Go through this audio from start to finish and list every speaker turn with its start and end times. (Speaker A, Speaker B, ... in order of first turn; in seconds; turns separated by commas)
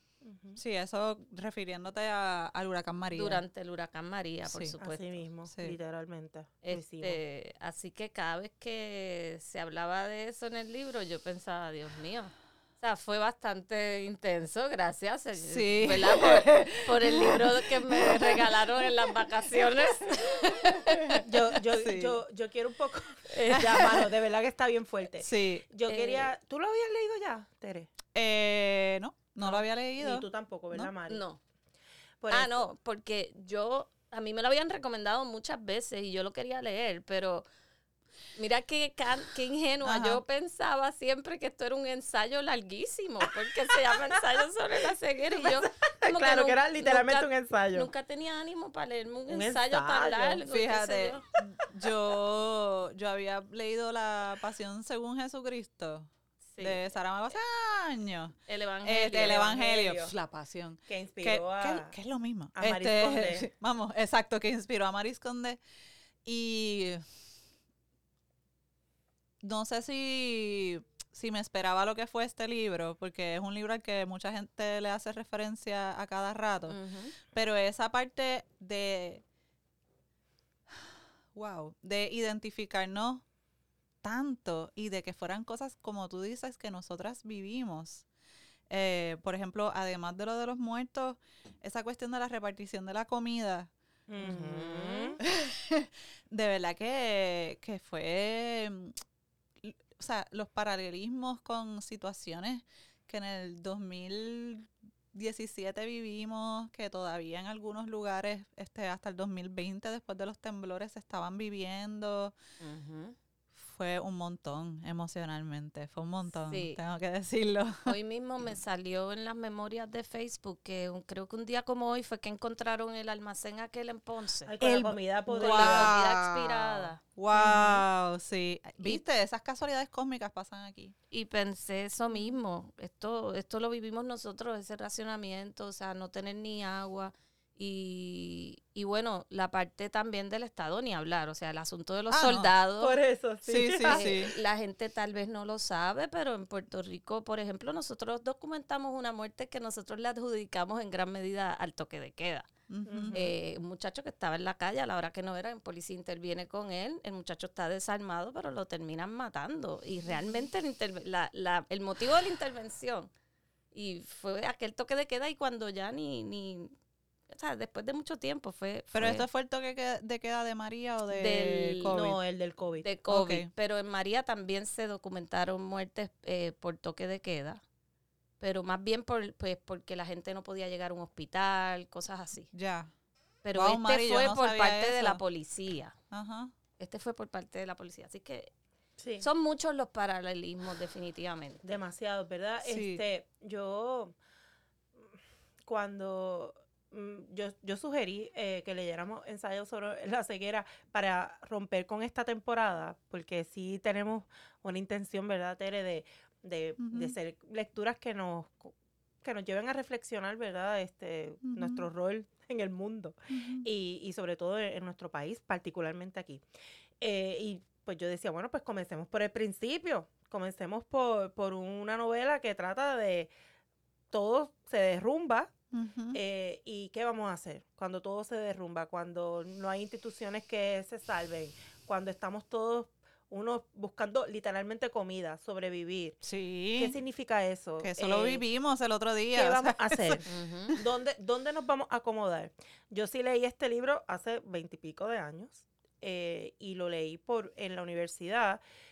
Speaker A: 0.2-0.6, Speaker B: 0.6-3.4, Speaker C: 3.1-5.2, Speaker B: 4.5-4.7, Speaker A: 4.8-7.2, Speaker B: 5.5-5.8, Speaker C: 6.6-21.2, Speaker B: 15.4-18.4, Speaker B: 20.9-22.2, Speaker A: 21.2-27.9, Speaker C: 23.3-24.0, Speaker B: 23.5-24.1, Speaker B: 25.2-25.6, Speaker C: 25.9-26.3, Speaker B: 28.1-30.9, Speaker A: 29.4-31.2, Speaker C: 31.1-31.4, Speaker A: 32.2-32.6, Speaker C: 32.3-37.5, Speaker C: 38.3-51.2, Speaker B: 39.8-40.2, Speaker A: 45.4-47.9, Speaker A: 49.3-50.4, Speaker B: 50.5-65.6, Speaker C: 56.5-56.8, Speaker C: 58.5-59.5, Speaker A: 59.2-60.1, Speaker A: 60.9-61.9, Speaker A: 62.5-63.5, Speaker B: 66.2-67.0, Speaker B: 69.4-76.8, Speaker C: 76.7-77.1, Speaker B: 77.3-79.2, Speaker B: 80.7-83.2, Speaker B: 84.0-88.0, Speaker B: 88.7-93.7, Speaker A: 94.1-95.2, Speaker B: 94.2-99.0, Speaker B: 99.6-112.3, Speaker C: 112.6-113.1, Speaker B: 113.5-117.9, Speaker C: 116.5-116.8, Speaker C: 117.8-124.5, Speaker A: 124.5-126.0, Speaker B: 124.6-130.9, Speaker C: 125.3-127.0, Speaker A: 127.4-127.8, Speaker C: 131.1-142.9, Speaker B: 142.1-142.5, Speaker A: 142.8-144.2, Speaker B: 143.5-144.3, Speaker C: 143.8-152.5, Speaker B: 152.7-153.3, Speaker A: 152.9-153.2, Speaker C: 153.1-163.1, Speaker C: 163.7-166.7, Speaker C: 167.3-169.3, Speaker B: 168.9-172.2, Speaker C: 171.1-171.9, Speaker A: 171.9-172.9, Speaker C: 172.8-177.6, Speaker B: 173.1-173.5, Speaker C: 178.4-182.5, Speaker B: 182.5-182.9, Speaker C: 183.4-185.9, Speaker B: 183.5-185.2, Speaker B: 186.1-186.5, Speaker C: 186.8-188.5, Speaker A: 189.0-189.3, Speaker C: 189.2-191.7, Speaker A: 191.6-194.1, Speaker B: 192.6-193.0, Speaker A: 195.7-208.7, Speaker B: 206.8-207.1, Speaker A: 209.2-216.4, Speaker B: 211.4-211.9, Speaker B: 213.3-213.7, Speaker A: 217.0-223.3, Speaker A: 224.1-225.5, Speaker B: 225.7-226.2, Speaker A: 226.1-236.2, Speaker B: 236.2-237.0, Speaker A: 236.8-238.4, Speaker B: 237.8-240.8, Speaker A: 239.3-240.2, Speaker C: 240.2-240.7, Speaker A: 240.7-248.6